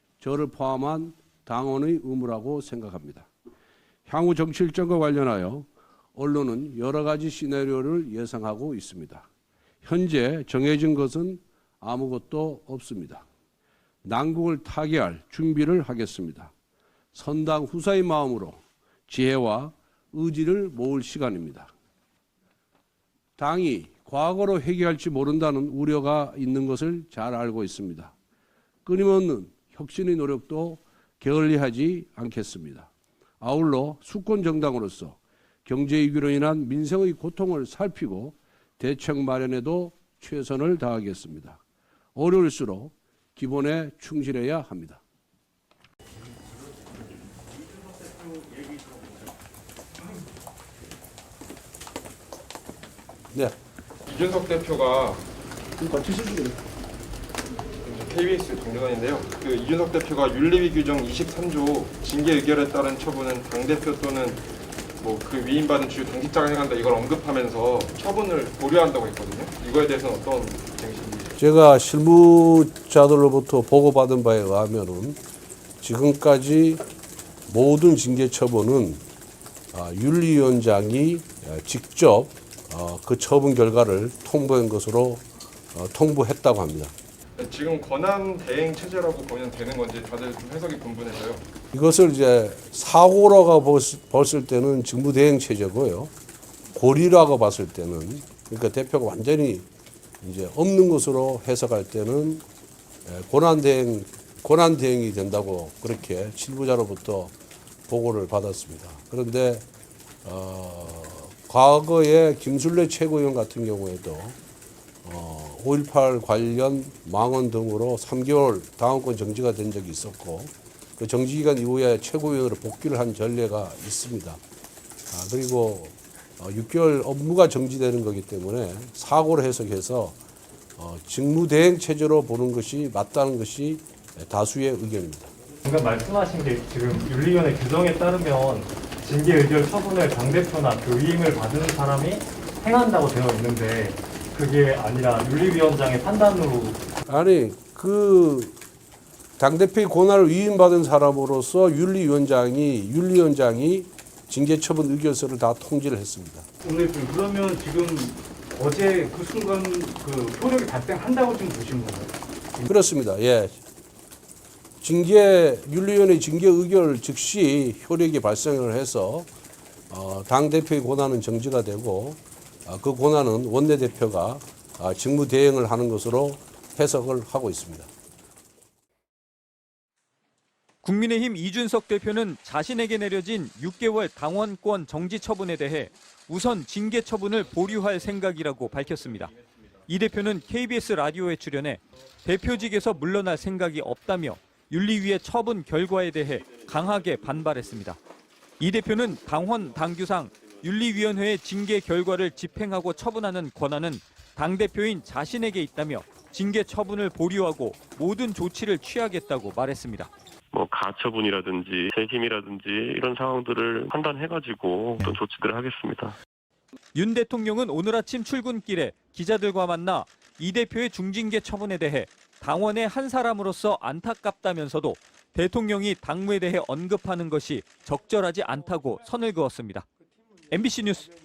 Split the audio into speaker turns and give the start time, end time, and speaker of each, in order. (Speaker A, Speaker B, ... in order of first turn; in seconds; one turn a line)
Speaker A: 0.2-3.3
Speaker A: 4.1-9.3
Speaker A: 9.8-13.2
Speaker A: 14.0-16.5
Speaker A: 17.1-21.7
Speaker A: 23.4-28.1
Speaker A: 28.9-41.6
Speaker A: 42.1-45.0
Speaker B: 54.1-55.2
Speaker A: 55.8-56.6
Speaker B: 57.8-64.4
Speaker B: 65.0-71.4
Speaker A: 71.4-75.2
Speaker A: 75.8-76.8
Speaker A: 77.5-79.0
Speaker A: 79.7-86.9
Speaker B: 87.4-91.5
Speaker A: 91.7-96.1
Speaker A: 96.7-99.7
Speaker A: 100.2-102.4
Speaker A: 103.1-107.3
Speaker A: 107.9-109.7
Speaker A: 110.2-114.4
Speaker A: 115.0-124.4
Speaker A: 125.1-130.2
Speaker A: 130.8-135.3
Speaker C: 135.7-146.8
Speaker A: 147.1-148.6
Speaker A: 149.4-156.5
Speaker D: 156.6-162.7
Speaker A: 162.7-163.6
Speaker A: 164.8-169.3
Speaker A: 169.9-177.9
Speaker E: 180.8-189.3
Speaker E: 189.9-198.0
Speaker E: 198.6-210.1
Speaker F: 210.5-216.2
Speaker E: 216.9-229.9
Speaker E: 230.5-231.1